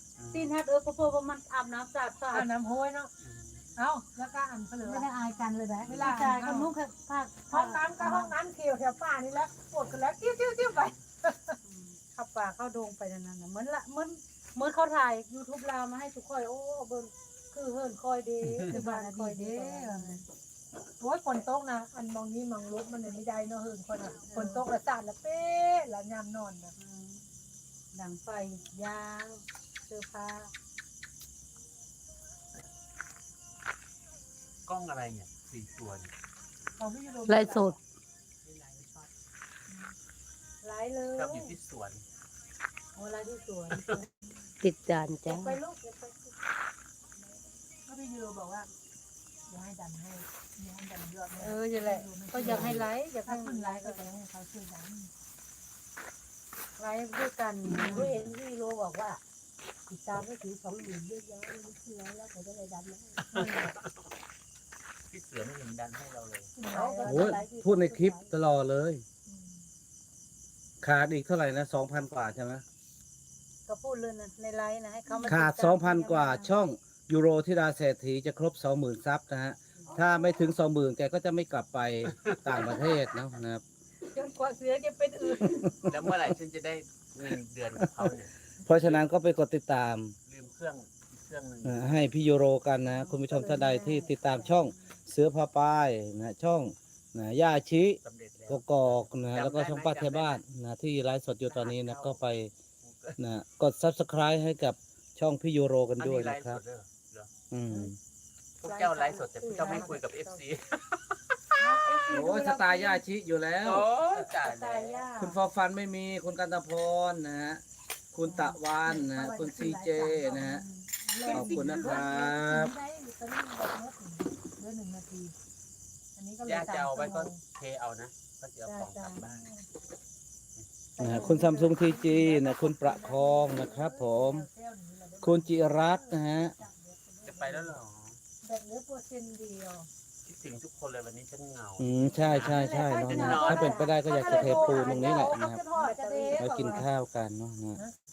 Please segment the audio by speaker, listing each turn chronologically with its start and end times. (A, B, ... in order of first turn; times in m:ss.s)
0:00.2-0:00.5 A
0:00.3-0:02.5 B
0:02.3-0:03.1 C
0:03.2-0:03.7 A
0:03.8-0:05.1 C
0:04.8-0:08.4 B
0:05.9-0:06.7 C
0:07.5-0:11.6 C
0:11.6-0:17.1 B
0:17.5-0:17.8 C
0:17.8-0:20.2 B
0:18.4-0:18.8 A
0:18.5-0:20.2 C
0:21.0-0:26.7 C
0:24.2-0:24.6 B
0:26.8-0:27.2 B
0:27.9-0:30.5 B
0:30.0-0:30.3 C
0:34.6-0:36.1 A
0:36.8-0:37.8 C
0:37.3-0:37.8 D
0:40.6-0:41.4 C
0:40.7-0:41.5 B
0:41.1-0:42.0 A
0:43.0-0:44.0 C
0:43.7-0:44.0 A
0:44.6-0:45.6 D
0:45.3-0:45.8 C
0:45.5-0:46.2 B
0:47.8-0:48.7 C
0:49.5-0:55.1 C
0:51.4-0:54.1 B
0:52.5-0:52.8 A
0:56.8-0:58.1 B
0:57.7-0:58.1 C
0:57.8-0:59.2 D
0:59.9-1:03.2 D
1:03.2-1:03.7 A
1:03.3-1:03.7 C
1:05.1-1:06.5 A
1:06.6-1:07.4 C
1:06.7-1:07.6 D
1:07.0-1:08.1 B
1:07.1-1:09.0 E
1:10.8-1:12.6 E
1:13.7-1:15.8 B
1:15.1-1:16.4 C
1:15.2-1:23.6 E
1:22.2-1:22.8 A
1:24.1-1:25.6 C
1:24.2-1:25.0 B
1:25.3-1:25.9 E
1:25.8-1:29.1 A
1:28.6-1:30.1 E
1:30.3-1:32.1 A
1:31.6-1:42.5 E
1:33.3-1:34.5 C
1:38.0-1:40.4 A
1:41.4-1:42.2 A
1:42.8-1:43.2 A
1:43.2-1:46.6 E
1:46.0-1:47.3 A
1:47.5-1:48.0 E
1:48.6-1:51.6 A
1:48.7-1:49.9 B
1:49.6-1:49.9 C
1:51.6-1:53.0 C
1:52.1-1:53.9 E
1:53.6-1:55.0 A
1:54.4-1:55.3 C
1:55.2-1:57.6 E
1:58.1-2:00.6 E
1:58.2-2:05.3 C
2:01.2-2:01.9 B
2:01.3-2:02.7 E
2:06.2-2:07.4 C
2:06.4-2:09.5 A
2:08.6-2:09.6 C
2:11.0-2:17.8 C
2:11.0-2:14.4 E
2:15.2-2:16.6 E
2:17.2-2:18.2 A
2:18.4-2:19.9 C
2:20.2-2:24.7 A
2:21.8-2:25.6 E
2:22.3-2:26.8 C
2:23.5-2:25.4 B
2:25.8-2:26.3 D
2:26.0-2:26.5 B
2:26.4-2:27.8 E